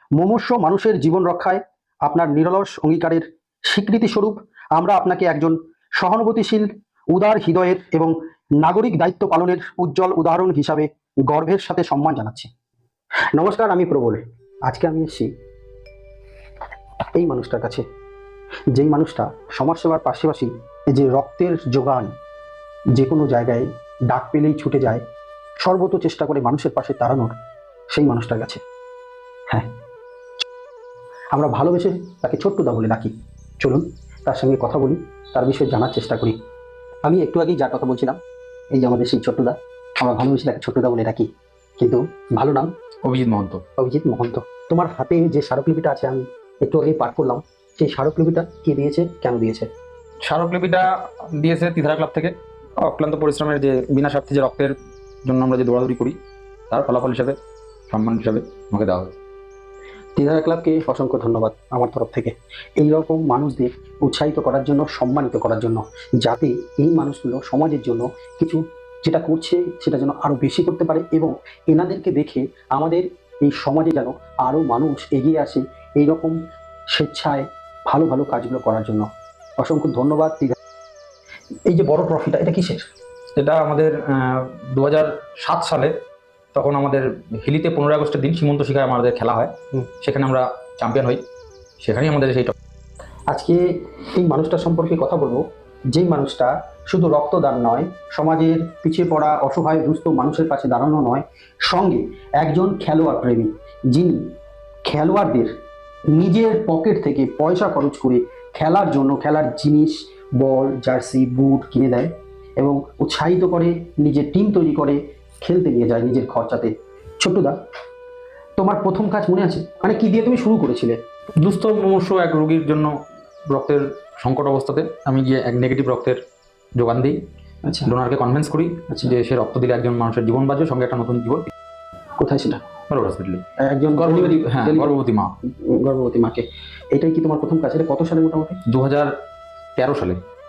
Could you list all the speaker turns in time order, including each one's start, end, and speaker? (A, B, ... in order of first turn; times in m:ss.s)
0:00.2-0:12.5 A
0:13.4-0:15.3 A
0:17.1-0:17.8 A
0:18.7-0:22.1 A
0:22.9-0:25.0 A
0:25.6-0:27.3 A
0:27.9-0:28.6 A
0:31.3-0:36.4 A
0:37.0-0:38.2 A
0:38.7-0:42.7 A
0:43.0-0:43.6 B
0:43.8-0:49.7 A
0:50.2-0:56.2 B
0:56.7-0:57.4 B
0:57.9-0:59.2 B
1:00.2-1:16.4 A
1:16.9-1:19.1 A
1:19.6-1:20.6 A
1:21.6-1:22.8 A
1:23.4-1:25.9 B
1:26.5-1:31.2 B
1:31.8-1:32.5 B
1:33.3-1:44.2 A
1:44.8-1:45.5 A
1:46.1-1:57.6 A
1:58.6-2:01.0 A
2:01.4-2:02.9 B
2:03.5-2:06.2 B
2:06.8-2:07.2 B
2:07.6-2:07.9 A
2:07.8-2:11.5 B
2:12.2-2:12.6 A
2:12.9-2:15.3 B
2:13.6-2:14.9 A
2:15.5-2:18.6 A
2:18.6-2:19.1 B
2:19.8-2:20.2 B